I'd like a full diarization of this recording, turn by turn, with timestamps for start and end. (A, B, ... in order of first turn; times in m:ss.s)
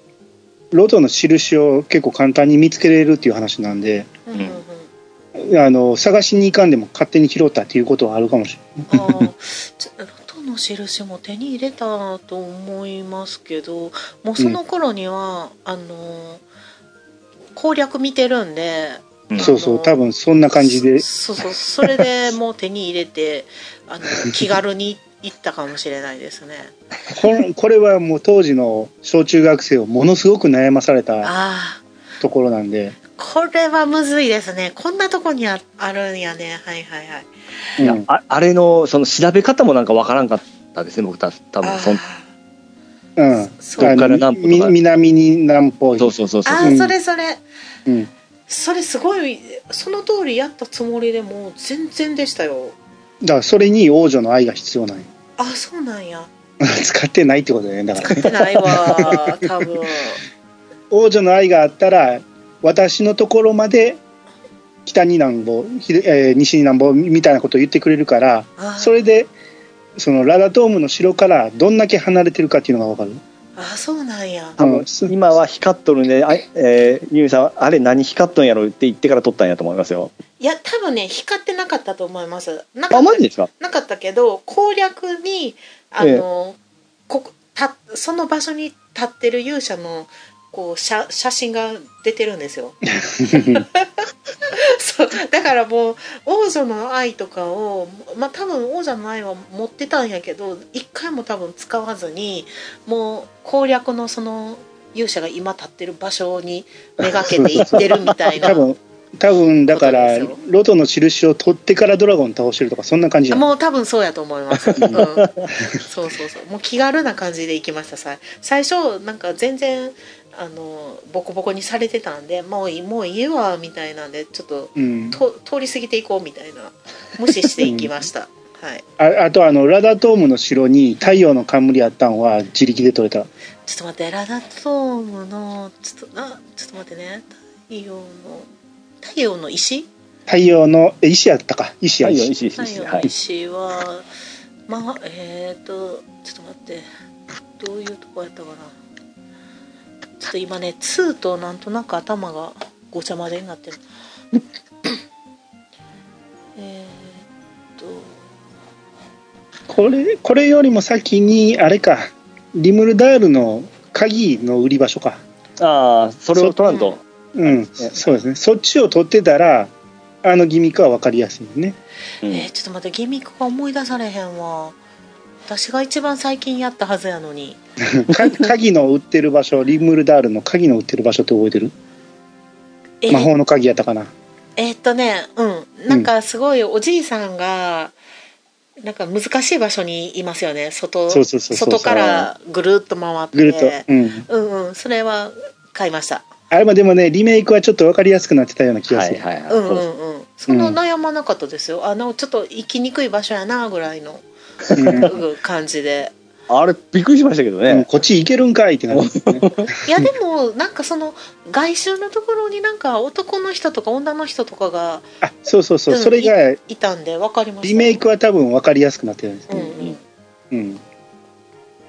0:00.7-0:04.2 A
0:04.3-0:04.9 B
0:05.4-0:09.3 A
0:08.9-0:16.4 B
0:17.5-0:20.0 B
0:19.4-0:21.0 A
0:20.6-0:26.7 B
0:27.1-0:31.3 A
0:31.2-0:31.8 B
0:32.2-0:33.0 A
0:33.2-0:37.3 B
0:37.8-0:38.0 A
0:37.8-0:42.0 C
0:41.6-0:42.3 B
0:43.2-0:46.9 A
0:43.5-0:44.0 B
0:43.8-0:44.7 C
0:46.0-0:46.7 C
0:46.4-0:47.4 B
0:48.5-0:52.8 B
0:53.2-0:55.1 A
0:55.4-0:56.3 B
0:56.6-0:59.6 A
0:58.0-1:00.2 B
1:00.9-1:04.0 A
1:04.8-1:09.3 A
1:08.6-1:09.0 B
1:10.0-1:13.2 A
1:13.6-1:14.6 B
1:14.6-1:20.1 C
1:14.6-1:15.1 A
1:20.4-1:26.6 B
1:22.9-1:23.5 C
1:26.0-1:26.2 C
1:27.1-1:48.6 B
1:33.0-1:33.6 A
1:47.3-1:53.4 A
1:47.6-1:47.8 C
1:49.7-1:50.4 B
1:53.3-2:08.8 B
1:54.6-1:55.5 C
2:04.8-2:05.2 A
2:07.6-2:07.9 A
2:09.0-2:13.3 A
2:13.6-2:18.5 B
2:19.0-2:19.9 B
2:20.3-2:22.3 A
2:22.0-2:23.1 C
2:22.6-2:24.1 B
2:24.7-2:26.9 B
2:27.6-2:28.8 B
2:30.2-2:33.8 B
2:36.6-2:38.2 B
2:39.7-2:45.2 A
2:45.6-2:47.0 C
2:46.7-2:47.0 B
2:47.3-2:49.7 A
2:50.2-2:51.8 A
2:52.2-2:52.5 C
2:52.3-2:54.8 B
2:55.5-2:57.6 B
2:57.8-3:01.7 A
3:03.0-3:03.3 B
3:03.1-3:04.1 A
3:04.6-3:07.9 B
3:08.8-3:16.3 B
3:11.1-3:12.3 A
3:13.3-3:14.2 A
3:16.5-3:19.2 A
3:18.9-3:19.8 C
3:19.5-3:24.2 B
3:20.5-3:20.8 A
3:24.7-3:25.1 C
3:24.8-3:25.1 A
3:24.9-3:26.1 B
3:26.5-3:27.9 C
3:27.7-3:29.5 A
3:28.9-3:29.7 C
3:29.8-3:35.1 B
3:35.2-3:36.6 A
3:35.9-3:38.0 B
3:37.6-3:39.8 A
3:39.5-3:40.0 B
3:40.5-3:40.8 A